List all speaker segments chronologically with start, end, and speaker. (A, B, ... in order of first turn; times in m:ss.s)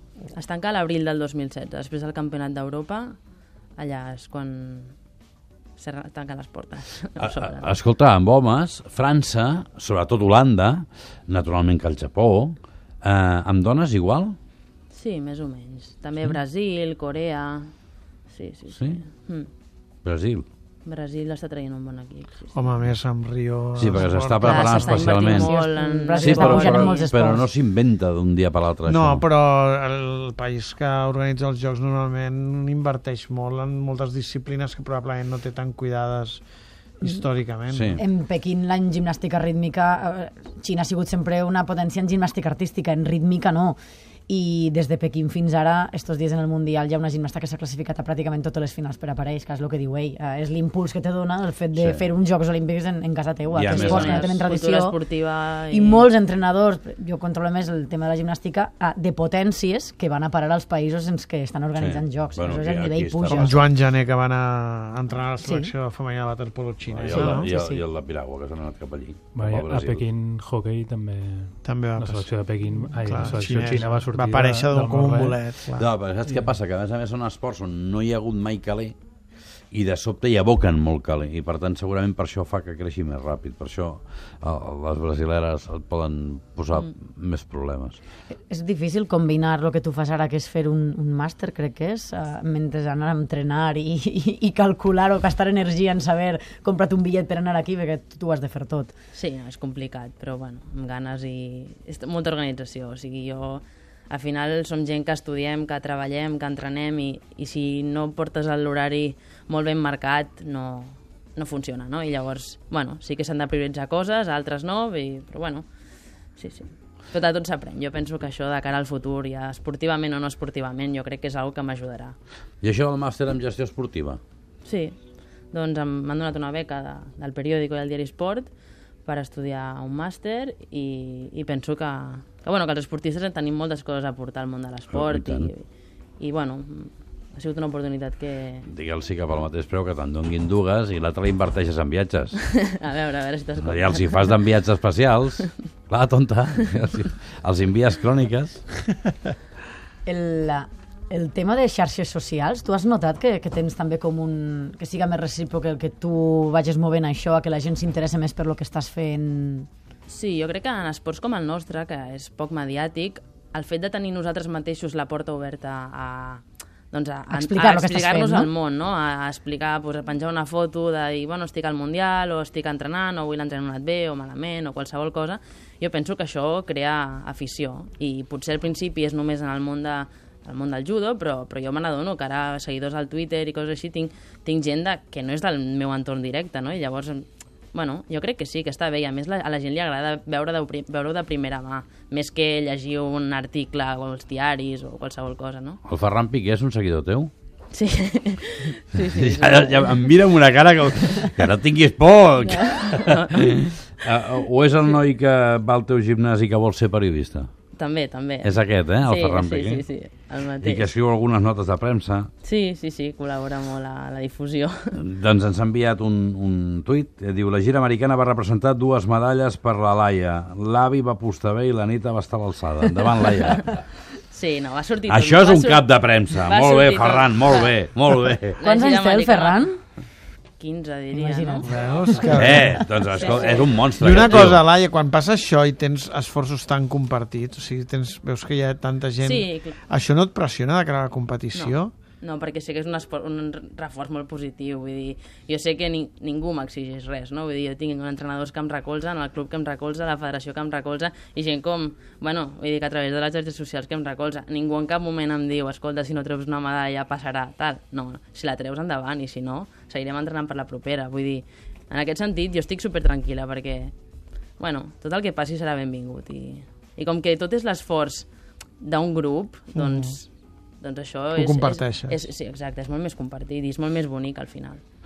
0:00.3-0:03.2 A
0:03.8-0:04.9 A
0:05.8-0:07.7 A
0:07.2-0:14.4 B
0:14.9-0:17.7 A
0:18.3-0:19.5 A
0:18.7-0:19.0 B
0:20.0-0:20.4 B
0:20.8-0:22.6 A
0:22.5-0:24.7 C
0:23.8-0:25.6 B
0:24.4-0:27.1 A
0:24.6-0:27.5 D
0:26.2-0:29.2 B
0:28.9-0:36.4 C
0:37.0-0:38.0 C
0:37.7-0:38.0 B
0:38.0-0:43.8 D
0:44.3-0:55.0 D
0:51.7-0:52.0 B
0:53.5-0:54.3 B
0:53.6-0:56.1 A
0:55.7-1:03.6 D
1:01.8-1:03.6 B
1:03.3-1:07.5 C
1:05.4-1:05.7 D
1:06.9-1:10.1 B
1:07.0-1:07.8 D
1:09.4-1:15.4 E
1:11.6-1:12.4 C
1:12.9-1:15.9 C
1:15.8-1:19.0 B
1:19.7-1:28.0 B
1:28.5-1:38.9 D
1:39.1-1:55.7 A
1:56.4-2:02.2 A
2:02.6-2:04.2 B
2:04.6-2:05.0 A
2:05.5-2:08.5 A
2:09.0-2:15.6 A
2:14.9-2:15.5 B
2:16.2-2:18.7 A
2:18.7-2:22.4 B
2:22.4-2:24.4 A
2:23.6-2:28.6 B
2:30.1-2:39.7 D
2:40.1-3:15.8 A
2:47.3-2:48.5 D
3:15.9-3:17.3 B
3:17.7-3:20.1 A
3:19.0-3:27.5 B
3:22.4-3:23.5 A
3:27.8-3:30.9 A
3:28.4-3:29.8 B
3:30.6-3:32.3 B
3:32.4-3:34.9 A
3:35.0-3:43.8 B
3:44.3-3:47.7 A
3:45.1-3:48.6 B
3:48.6-3:49.6 A
3:48.6-3:49.8 D
3:50.6-3:51.7 A
3:51.1-3:52.7 D
3:51.6-3:52.8 C
3:52.3-3:54.7 B
3:53.0-3:53.8 A
3:53.9-4:01.9 C
3:59.2-3:59.8 A
4:01.5-4:23.9 A
4:24.6-4:28.3 A
4:28.8-4:30.3 A
4:29.8-4:30.1 C
4:30.8-4:34.8 A
4:31.3-4:32.2 C